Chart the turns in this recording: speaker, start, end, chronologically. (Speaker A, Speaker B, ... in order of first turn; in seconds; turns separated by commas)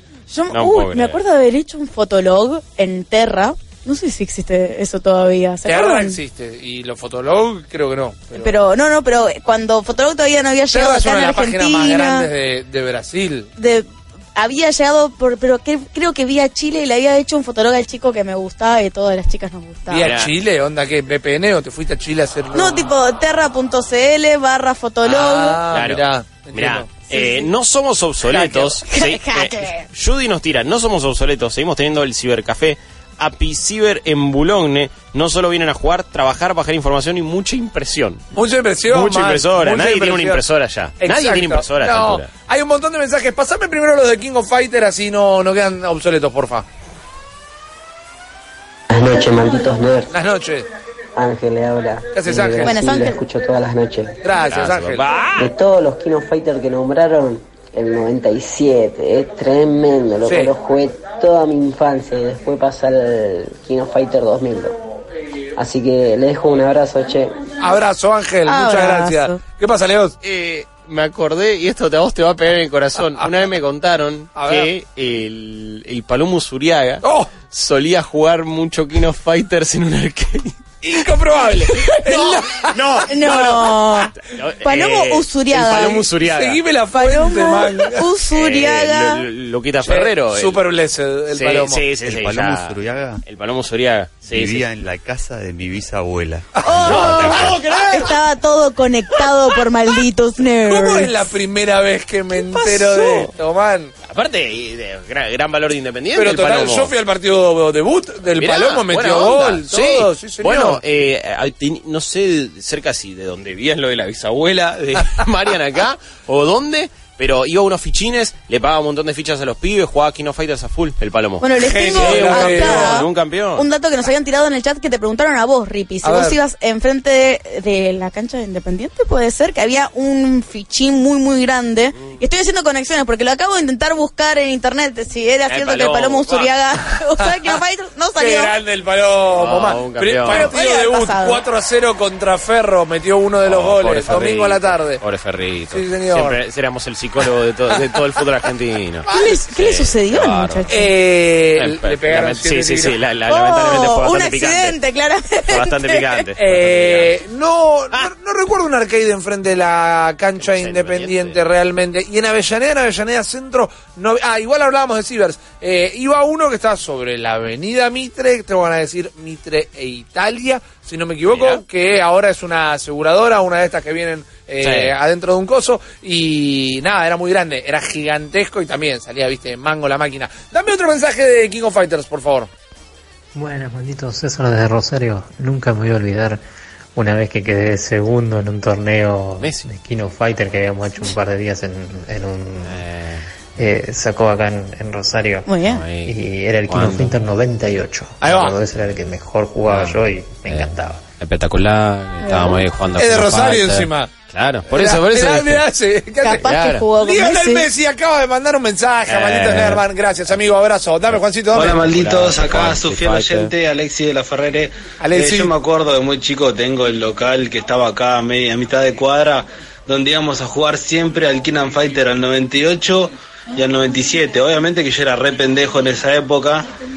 Speaker A: 0.3-6.2, Speaker B: 0.5-1.2, Speaker C: 5.7-8.6, Speaker A: 8.3-12.3, Speaker C: 10.7-13.5, Speaker A: 13.6-20.1, Speaker C: 19.9-22.9, Speaker B: 19.9-20.3, Speaker A: 22.5-25.6, Speaker C: 25.1-26.9, Speaker B: 25.7-38.2, Speaker A: 27.1-27.5, Speaker C: 28.3-28.7, Speaker A: 28.3-29.9, Speaker C: 38.3-40.4, Speaker B: 38.9-42.3, Speaker C: 41.0-46.6, Speaker D: 48.9-50.1, Speaker C: 50.1-50.7, Speaker D: 51.1-54.2, Speaker C: 52.1-52.8, Speaker A: 52.6-53.2, Speaker C: 54.2-55.0, Speaker B: 54.5-55.5, Speaker D: 55.4-64.7, Speaker C: 60.2-60.5, Speaker D: 65.5-67.3, Speaker C: 67.6-70.2, Speaker A: 68.5-69.4, Speaker B: 70.2-80.5, Speaker C: 74.3-74.7, Speaker C: 77.0-77.3, Speaker C: 80.8-83.8, Speaker A: 81.7-82.4, Speaker B: 82.7-83.7, Speaker A: 83.1-86.0, Speaker B: 84.2-86.6, Speaker C: 86.0-88.0, Speaker A: 86.9-89.2, Speaker B: 88.3-90.6, Speaker C: 89.8-91.8, Speaker B: 91.3-94.6, Speaker E: 92.0-93.2, Speaker E: 94.2-97.6, Speaker C: 96.5-98.2, Speaker A: 96.7-101.3, Speaker B: 96.8-97.6, Speaker C: 100.6-103.9, Speaker B: 102.4-103.3, Speaker B: 104.0-106.9, Speaker C: 106.1-110.8, Speaker B: 108.4-123.7, Speaker A: 121.4-138.6, Speaker C: 121.6-123.0, Speaker C: 126.0-126.4, Speaker B: 135.5-136.5, Speaker C: 138.1-145.0, Speaker B: 139.3-140.5, Speaker A: 140.3-141.4, Speaker B: 143.4-150.7, Speaker C: 145.7-146.4, Speaker C: 147.7-148.3, Speaker A: 149.1-150.9, Speaker C: 150.7-152.9, Speaker B: 151.6-154.8, Speaker A: 153.3-156.2, Speaker B: 155.5-157.1, Speaker C: 156.4-182.5, Speaker B: 160.4-161.4, Speaker B: 171.3-171.6, Speaker B: 174.6-174.9, Speaker F: 183.3-186.4, Speaker F: 186.9-192.8, Speaker B: 189.4-189.7, Speaker B: 192.6-193.3, Speaker F: 193.6-201.0, Speaker A: 195.4-195.8, Speaker B: 195.6-196.1, Speaker B: 196.7-197.2, Speaker C: 198.2-198.5, Speaker B: 199.7-205.6, Speaker A: 202.2-202.6, Speaker C: 202.9-204.1, Speaker C: 204.7-211.8, Speaker A: 206.2-207.7, Speaker B: 206.3-206.8, Speaker B: 209.1-209.8, Speaker G: 211.5-226.7, Speaker B: 211.6-213.5, Speaker C: 215.0-215.5